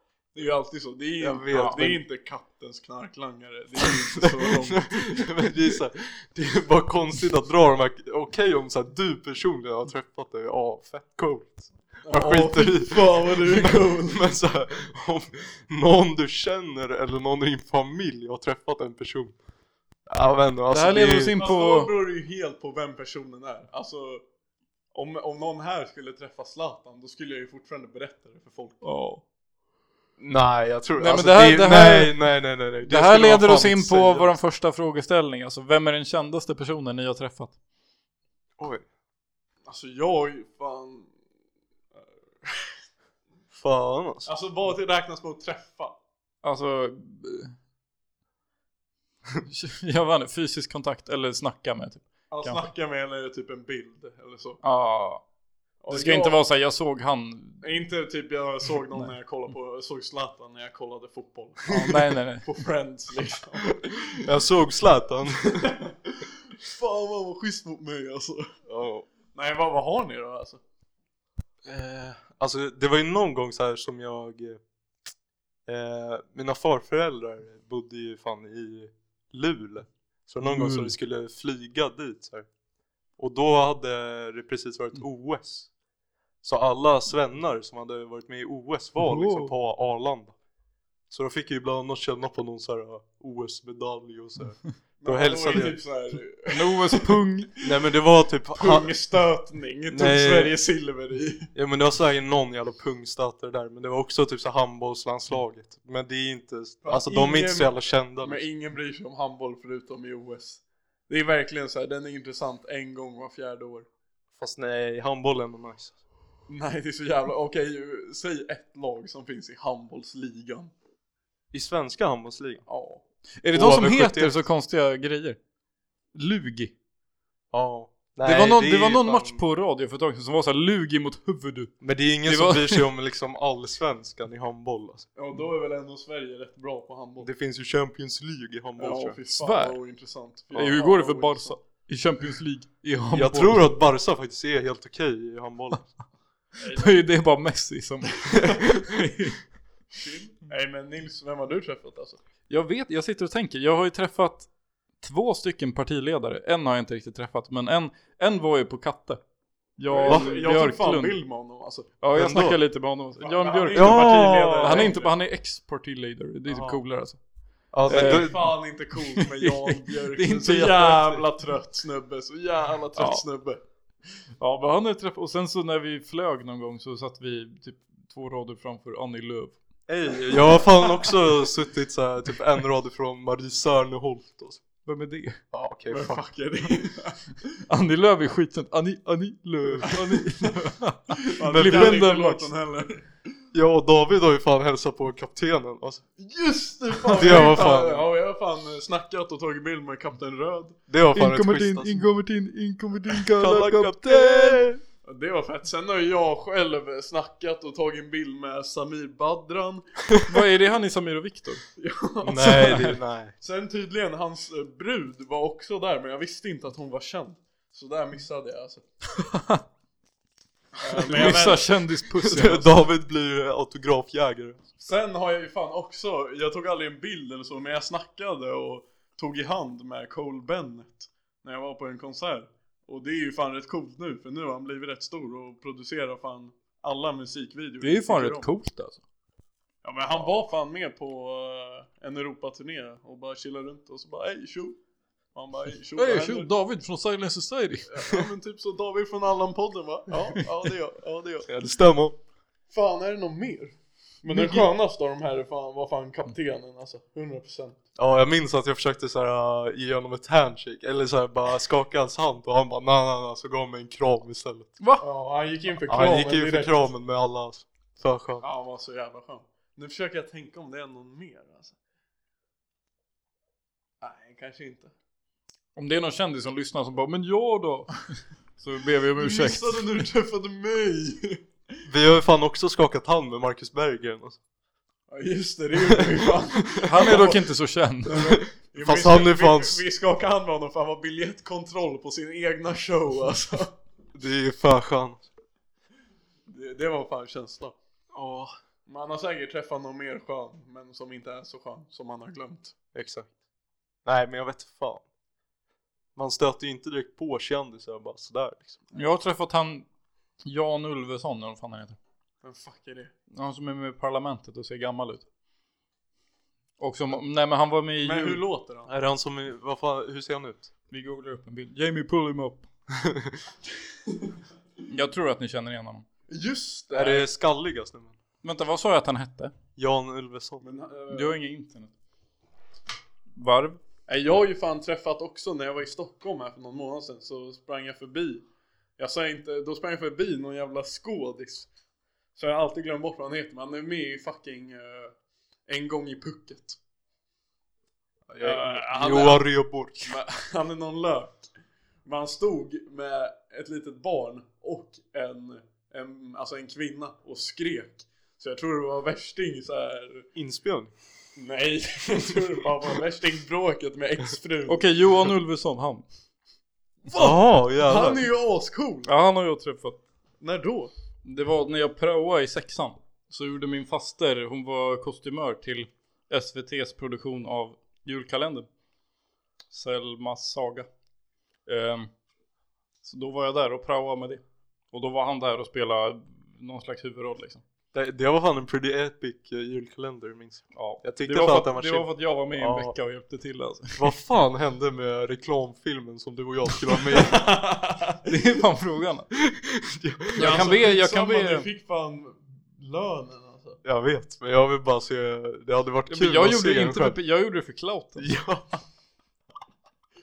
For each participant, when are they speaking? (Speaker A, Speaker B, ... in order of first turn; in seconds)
Speaker A: 0.3-5.2, 12.0-14.3, 21.4-24.2, 24.9-28.8, 39.6-41.1, 42.0-42.8, 44.2-46.0, 52.3-54.6, 55.8-56.4, 57.6-64.2, 65.6-68.5, 69.3-70.6, 95.0-97.2, 98.5-101.5, 106.8-113.9, 116.5-120.7, 122.7-123.0, 135.2-137.3, 138.8-141.6, 146.6-147.0, 149.9-152.2, 159.9-161.9, 163.2-165.1, 167.9-173.6, 185.9-187.4, 191.2-193.1, 196.2-200.8, 205.0-209.8, 211.8-218.8, 220.8-221.6, 224.8-238.5, 239.8-244.8, 245.3-246.5, 247.9-251.5, 252.7-257.8, 265.0-266.9, 268.4-271.8, 274.0-274.9, 279.2-281.4, 285.1-287.4, 288.0-293.7, 296.5-297.8, 298.9-302.7, 312.4-313.1, 318.0-318.9, 326.3-327.3, 330.6-331.3, 334.1-338.4, 339.0-341.7, 342.4-345.1, 345.7-346.8, 348.4-349.5, 350.0-351.5, 352.0-360.3, 361.4-364.8, 367.0-369.1, 370.4-370.9, 397.1-398.2, 400.4-403.8
Speaker B: 1.2-2.0, 4.2-19.4, 20.1-21.4, 30.2-34.3, 38.6-38.8, 43.5-44.3, 64.2-65.7, 68.7-69.1, 71.6-74.6, 75.7-82.5, 83.2-85.7, 86.4-90.3, 91.1-95.8, 97.6-98.9, 99.9-100.5, 101.5-108.4, 114.4-116.0, 121.5-122.6, 123.5-124.4, 127.5-129.4, 131.8-135.1, 137.2-139.2, 143.1-145.9, 160.1-160.3, 162.1-162.6, 163.7-164.9, 166.5-166.8, 167.7-168.5, 179.9-184.6, 185.5-186.2, 189.6-190.2, 191.5-192.0, 193.5-196.0, 197.1-198.1, 200.9-202.1, 203.3-204.8, 212.2-213.3, 222.2-224.7, 251.5-252.2, 257.9-264.7, 265.9-268.4, 281.9-284.4, 288.8-289.8, 294.1-295.3, 298.1-298.5, 302.9-303.3, 304.0-305.0, 306.1-308.8, 318.9-320.7, 322.9-323.4, 326.9-328.1, 329.8-330.6, 348.3-350.1, 360.3-360.9, 367.1-368.3, 387.9-392.9, 393.9-397.4, 399.3-400.8, 403.8-407.2, 408.2-408.8
Speaker C: 1.5-1.8, 20.7-21.9, 28.8-29.2, 31.0-32.1, 32.8-37.5, 46.4-47.5, 49.5-52.6, 54.6-55.2, 55.9-57.6, 61.7-62.5, 80.4-80.9, 89.0-89.5, 96.5-97.5, 123.4-125.4, 126.1-126.7, 128.2-132.8, 139.3-139.8, 140.5-143.7, 146.7-149.4, 152.5-154.5, 155.0-159.2, 159.8-161.2, 162.0-167.2, 167.8-168.5, 169.4-171.3, 173.0-173.2, 174.4-179.6, 184.8-185.4, 187.7-192.5, 201.1-204.6, 210.3-211.6, 212.4-213.0, 219.2-219.6, 221.0-222.8, 237.8-239.0, 245.9-247.9, 254.3-254.7, 275.7-278.0, 278.6-280.0, 286.8-288.4, 308.9-309.9, 310.4-312.0, 313.3-315.2, 316.8-318.4, 320.9-322.6, 324.9-326.0, 328.4-329.5, 331.1-331.9, 333.3-333.8, 364.7-366.0, 369.1-370.0, 371.2-378.7, 379.7-380.9, 381.6-382.1, 383.0-387.6, 390.7-394.1, 398.2-399.3, 400.3-401.7, 406.1-408.3